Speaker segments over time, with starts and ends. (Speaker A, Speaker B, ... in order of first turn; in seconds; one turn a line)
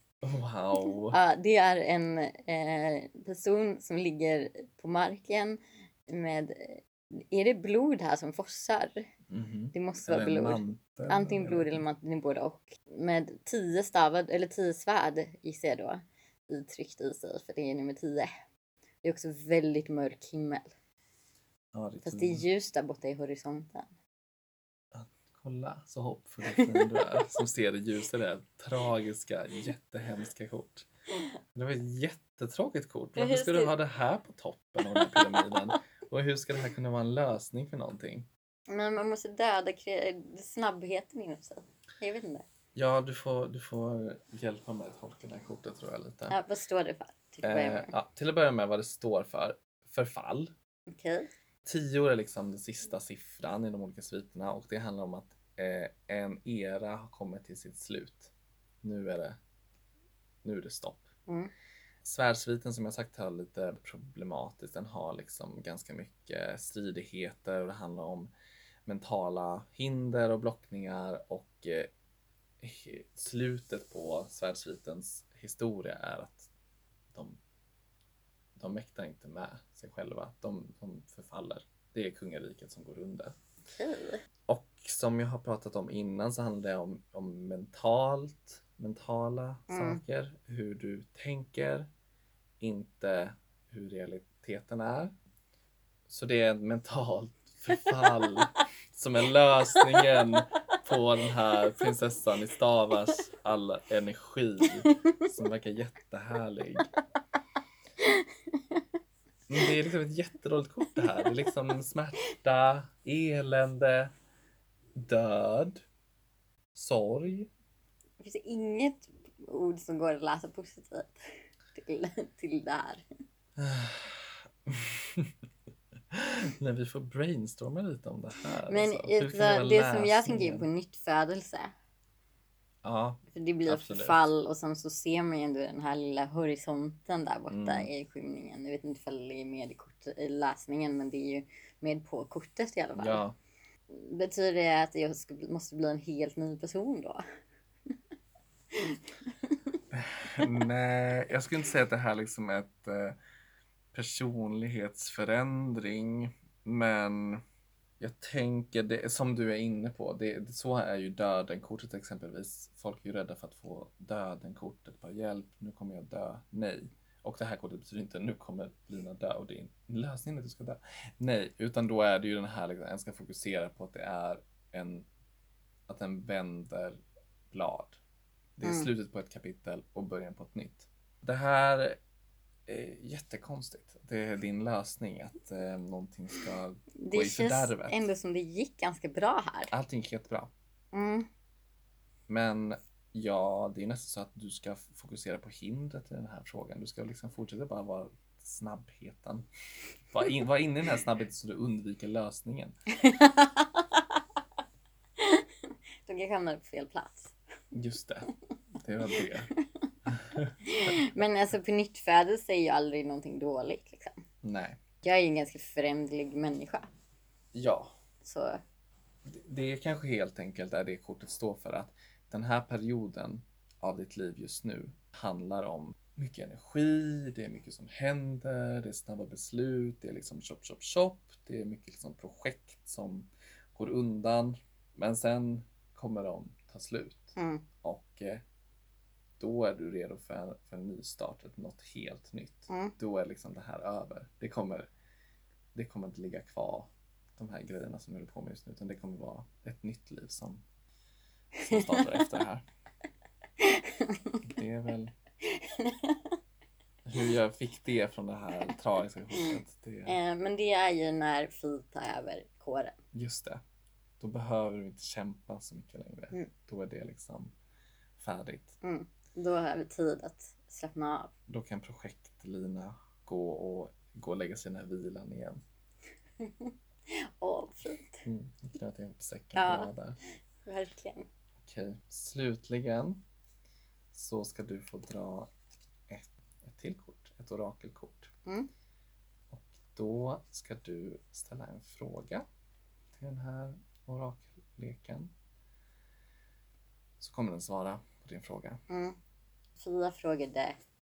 Speaker A: 0.2-1.2
Speaker B: 1.1-9.1
Speaker A: 9.3-11.8
Speaker B: 9.7-18.3
Speaker B: 19.0-20.7
Speaker A: 21.7-22.4
Speaker B: 22.0-23.9
Speaker A: 24.9-30.9
Speaker B: 26.5-27.4
Speaker A: 31.6-38.3
Speaker B: 33.2-33.7
Speaker B: 34.9-35.5
Speaker B: 38.7-42.5
Speaker A: 42.8-46.4
Speaker B: 46.3-47.9
Speaker A: 47.4-50.5
Speaker B: 50.9-51.3
Speaker A: 51.6-59.4
Speaker A: 60.4-61.1
Speaker A: 62.0-68.3
Speaker A: 68.9-71.9
Speaker A: 72.6-76.5
Speaker A: 77.1-77.4
Speaker A: 78.6-83.4
Speaker B: 83.7-84.2
Speaker A: 84.5-91.9
Speaker B: 89.7-90.0
Speaker A: 92.6-95.1
Speaker A: 96.1-106.9
Speaker B: 108.0-108.8
Speaker A: 109.5-114.1
Speaker A: 115.0-115.8
Speaker A: 116.7-117.5
Speaker B: 118.2-121.2
Speaker B: 121.7-123.0
Speaker A: 123.6-125.3
Speaker A: 126.1-130.7
Speaker B: 128.7-131.7
Speaker A: 132.8-134.2
Speaker B: 133.3-143.2
Speaker A: 137.5-137.9
Speaker A: 142.9-143.4
Speaker B: 143.9-147.2
Speaker B: 148.7-149.8
Speaker A: 149.9-153.2
Speaker A: 153.9-157.4
Speaker A: 158.0-175.1
Speaker A: 175.9-177.0
Speaker A: 177.5-178.0
Speaker A: 178.6-182.0
Speaker B: 178.6-178.9
Speaker A: 182.7-188.0
Speaker B: 187.0-189.7
Speaker A: 189.7-190.5
Speaker B: 190.9-191.3
Speaker A: 192.3-199.5
Speaker A: 200.1-202.7
Speaker B: 202.9-204.2
Speaker B: 205.2-205.5
Speaker B: 206.1-207.3
Speaker A: 207.7-208.3
Speaker A: 208.8-209.5
Speaker A: 210.1-211.2
Speaker B: 210.6-214.2
Speaker A: 214.4-214.8
Speaker B: 215.0-216.9
Speaker A: 217.5-217.9
Speaker B: 218.2-218.6
Speaker A: 219.2-238.4
Speaker B: 237.4-237.6
Speaker A: 239.4-244.9
Speaker A: 245.7-250.6
Speaker B: 251.6-252.2
Speaker A: 251.6-252.6
Speaker B: 253.6-254.4
Speaker A: 254.4-255.1
Speaker B: 255.4-256.3
Speaker A: 257.1-260.2
Speaker B: 260.1-263.0
Speaker A: 263.1-263.6
Speaker A: 264.2-267.5
Speaker A: 268.2-268.8
Speaker B: 268.8-271.3
Speaker A: 271.5-275.6
Speaker B: 276.4-278.2
Speaker A: 278.3-280.2
Speaker B: 279.5-279.9
Speaker B: 280.7-281.3
Speaker A: 281.6-283.2
Speaker A: 284.1-285.5
Speaker A: 286.1-288.3
Speaker A: 289.5-292.4
Speaker A: 293.1-295.3
Speaker A: 297.2-298.8
Speaker B: 298.9-299.2
Speaker B: 299.8-300.8